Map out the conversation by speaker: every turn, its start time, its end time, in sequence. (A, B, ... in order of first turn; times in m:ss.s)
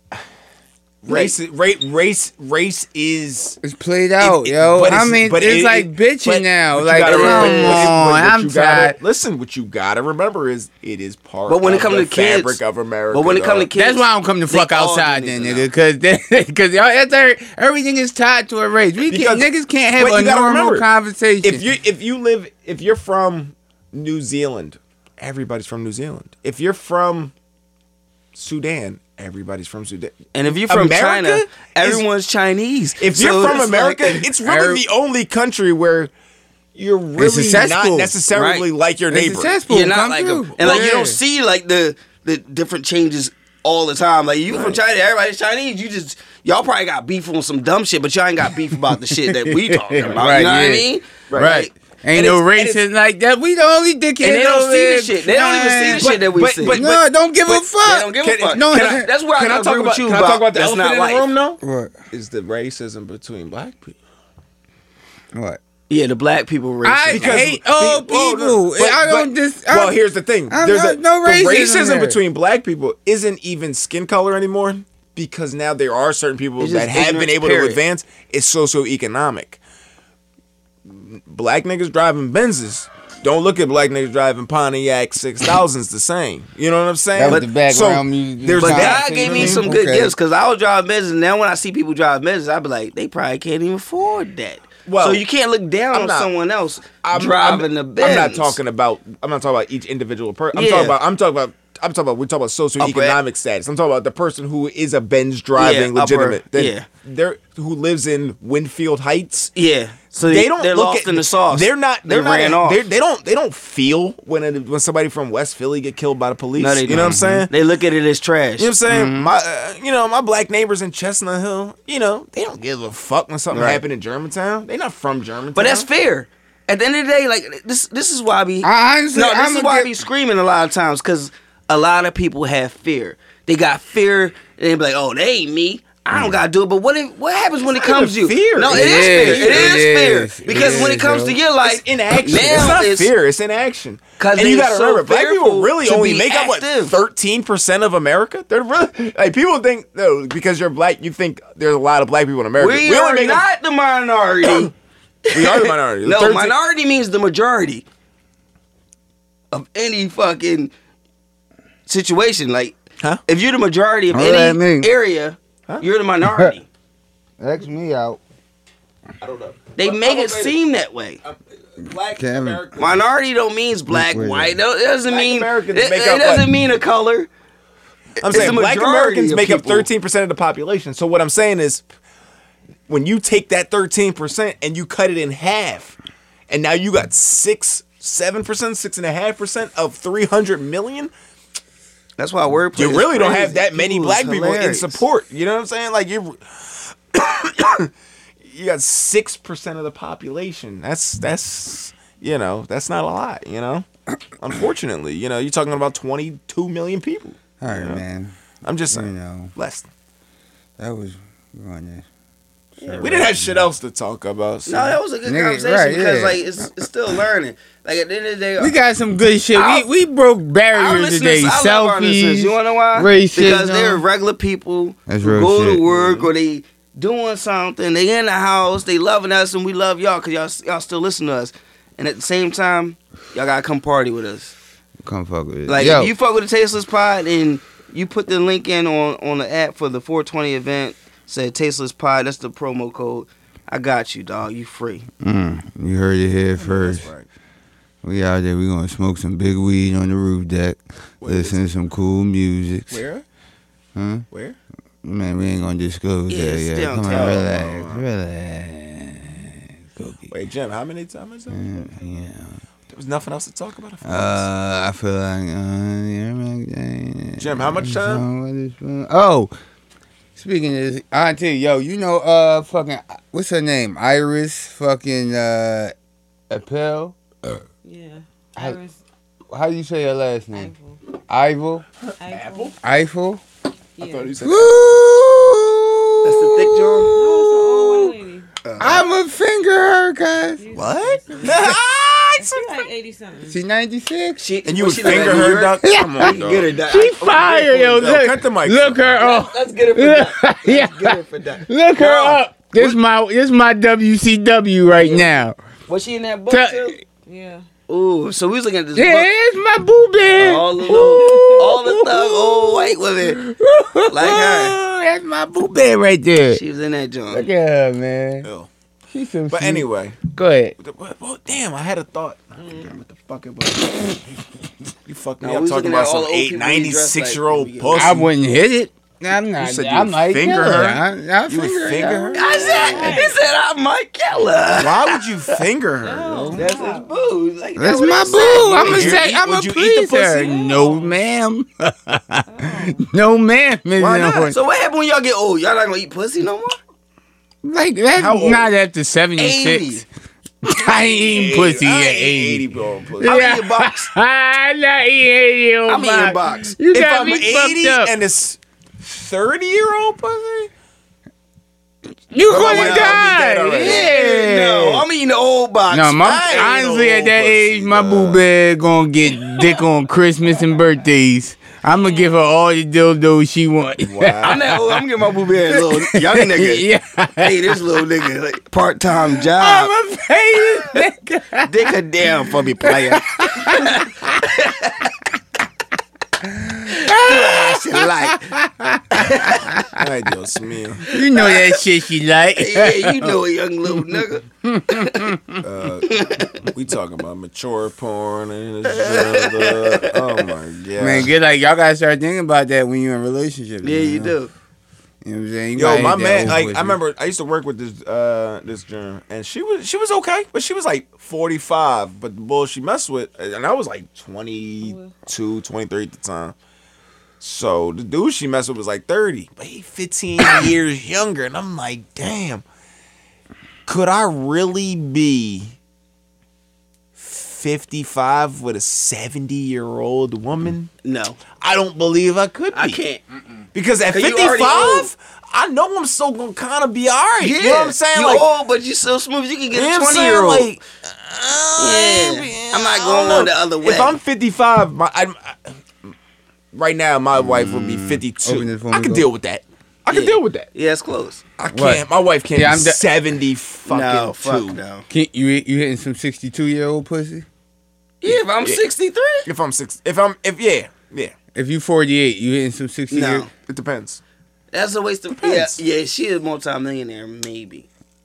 0:01.0-0:03.6 A
0:01.0-0:01.3 B
0:03.6-0:09.0 C
0:04.2-0:13.7 A
0:07.0-0:07.9 B
0:11.5-0:12.6 B
0:13.1-0:15.7 B
0:13.7-0:21.6 C
0:19.1-0:20.9 A
0:21.4-0:27.3 A
0:28.3-0:32.0 A
0:30.3-0:34.3 B
0:33.0-0:36.1 A
0:34.4-0:34.8 C
0:36.7-0:39.6 A
0:37.2-0:38.2 C
0:38.3-0:38.7 B
0:39.1-0:41.2 C
0:39.7-0:51.7 B
0:40.6-0:40.9 A
0:44.5-0:44.8 A
0:48.9-0:56.1 C
0:51.3-0:52.8 A
0:54.2-0:56.9 B
0:56.0-0:57.6 A
0:56.6-0:59.1 C
0:57.6-1:01.3 B
0:58.2-1:04.0 A
1:01.6-1:01.9 C
1:05.3-1:05.6 C
1:05.9-1:07.4 B
1:06.8-1:10.0 C
1:07.1-1:19.6 A
1:10.5-1:12.2 C
1:16.6-1:17.8 B
1:20.9-1:29.7 A
1:27.1-1:30.1 C
1:28.6-1:38.6 B
1:34.9-1:35.2 A
1:35.9-1:36.3 A
1:37.0-1:49.5 A
1:40.5-1:41.0 B
1:42.8-1:43.2 B
1:45.6-1:46.8 B
1:49.5-1:52.8 B
1:50.2-1:57.5 A
1:56.6-1:58.7 B
1:56.9-1:57.5 C
1:58.6-2:05.9 A
1:58.9-1:59.3 C
2:03.5-2:03.8 B
2:05.5-2:23.1 B
2:08.6-2:09.9 C
2:17.7-2:19.9 A
2:18.7-2:21.4 C
2:20.5-2:20.9 A
2:21.6-2:33.4 A
2:24.2-2:26.9 B
2:32.6-2:34.7 B
2:34.4-2:34.7 A
2:35.2-2:37.8 B
2:35.3-2:36.5 A
2:39.5-2:40.7 B
2:41.9-2:46.6 B
2:44.1-2:44.9 C
2:46.2-2:46.5 C
2:47.4-2:48.2 C
2:49.2-2:50.6 A
2:49.8-2:51.2 B
2:51.2-2:53.0 A
2:52.1-2:52.6 C
2:52.8-2:57.3 B
2:53.9-2:54.6 C
2:55.1-2:56.5 A
2:58.2-3:01.8 A
2:58.2-2:59.9 B
3:02.9-3:06.0 A
3:06.5-3:11.1 A
3:12.2-3:15.0 B
3:12.8-3:17.9 A
3:18.4-3:23.9 A
3:24.4-3:28.0 A
3:27.6-3:28.3 C
3:28.6-3:29.9 A
3:28.9-3:29.5 C
3:30.8-3:32.0 C
3:32.8-3:33.7 C
3:32.8-3:33.3 B
3:33.0-3:35.0 A
3:34.7-3:38.8 B
3:35.2-3:36.5 C
3:38.6-3:44.0 C
3:39.5-3:39.9 B
3:40.7-3:54.5 B
3:45.1-3:45.8 C
3:45.8-3:46.3 A
3:55.0-3:56.1 C
3:55.7-4:05.1 B
4:05.2-4:07.1 C
4:06.6-4:07.3 A
4:08.0-4:13.0 C
4:11.2-4:11.7 A
4:12.9-4:13.2 A
4:13.9-4:14.2 C
4:14.3-4:14.6 A
4:15.0-4:20.3 C
4:16.3-4:17.5 B
4:17.1-4:18.0 A
4:20.3-4:21.8 A
4:21.5-4:22.6 C
4:22.9-4:24.5 A
4:24.0-4:29.5 C
4:27.4-4:28.2 A
4:30.4-4:35.9 C
4:36.5-4:37.6 C
4:37.8-4:39.0 D
4:39.5-4:40.7 C
4:40.5-4:41.0 D
4:41.3-4:41.8 C
4:42.1-4:42.8 A
4:42.2-4:42.8 D
4:42.8-4:43.4 C
4:44.0-4:44.4 D
4:44.0-4:44.9 A
4:44.4-4:48.2 C
4:46.2-4:47.1 B
4:47.1-4:48.5 D
4:48.6-4:49.0 B
4:48.8-4:50.6 C
4:50.6-4:51.8 D
4:50.7-4:52.7 A
4:52.4-4:53.6 D
4:53.5-4:54.4 C
4:54.4-4:57.8 B
4:54.6-4:56.7 A
4:55.0-4:56.3 C
4:56.9-5:05.6 C
4:57.6-4:59.2 A
4:59.2-5:02.2 B
5:02.0-5:02.9 A
5:05.0-5:07.0 B
5:06.5-5:07.0 C
5:07.2-5:07.6 D
5:07.9-5:09.3 B
5:08.9-5:16.6 C
5:10.4-5:13.4 B
5:10.9-5:11.6 D
5:14.1-5:14.8 B
5:16.5-5:17.5 B
5:17.3-5:18.5 C
5:18.4-5:18.7 A
5:19.1-5:20.7 C
5:19.5-5:20.2 A
5:20.8-5:24.2 A
5:25.0-5:28.3 A
5:25.4-5:28.2 B
5:27.9-5:33.1 C
5:29.6-5:32.9 A
5:32.3-5:35.6 B
5:32.3-5:33.4 D
5:34.8-5:36.6 A
5:36.0-5:37.1 D
5:36.5-5:39.2 B
5:37.8-5:44.6 C
5:38.4-5:40.6 A
5:40.4-5:41.2 D
5:42.5-5:43.0 D
5:44.0-5:44.5 A
5:44.5-5:46.8 B
5:47.6-5:50.0 C
5:48.1-5:48.7 A
5:49.4-5:50.0 B
5:50.6-5:52.6 C
5:51.0-5:53.4 A
5:53.2-5:58.1 C
5:53.2-5:54.1 B
5:55.9-5:56.8 B
5:56.9-6:00.7 A
6:02.3-6:05.0 C
6:02.4-6:04.1 A
6:02.5-6:06.7 B
6:05.9-6:15.0 C
6:06.2-6:08.4 A
6:12.0-6:12.3 D
6:14.0-6:14.8 A
6:14.4-6:16.8 B
6:15.7-6:17.8 C
6:17.4-6:19.9 B
6:19.4-6:24.4 C
6:21.6-6:25.1 B
6:26.4-6:29.9 C
6:26.9-6:28.5 B
6:29.1-6:29.7 B
6:29.9-6:31.0 A
6:31.1-6:35.6 C
6:31.1-6:31.8 B
6:32.6-6:35.3 B
6:35.6-6:41.3 A
6:36.0-6:36.6 B
6:38.9-6:40.5 B
6:41.0-6:44.3 C
6:43.8-6:44.5 B
6:45.2-6:47.0 C
6:45.8-6:56.5 A
6:54.8-6:55.1 D
6:57.4-7:02.6 A
7:03.8-7:05.7 A
7:07.2-7:10.9 A
7:11.0-7:11.4 B
7:11.5-7:13.0 A
7:12.7-7:13.2 B
7:13.7-7:18.4 A
7:14.1-7:15.1 B
7:17.4-7:20.7 B
7:19.7-7:26.1 A
7:21.8-7:24.2 B
7:26.7-7:30.7 A
7:27.3-7:29.3 C
7:30.1-7:31.4 B
7:31.6-7:34.8 A
7:31.7-7:33.0 C
7:33.9-7:35.0 B
7:35.1-7:37.4 C
7:38.2-7:39.5 B
7:39.4-7:41.3 A
7:41.5-7:43.5 C
7:43.1-7:43.5 B
7:43.6-7:44.2 A
7:44.7-7:47.8 B
7:45.4-7:45.8 A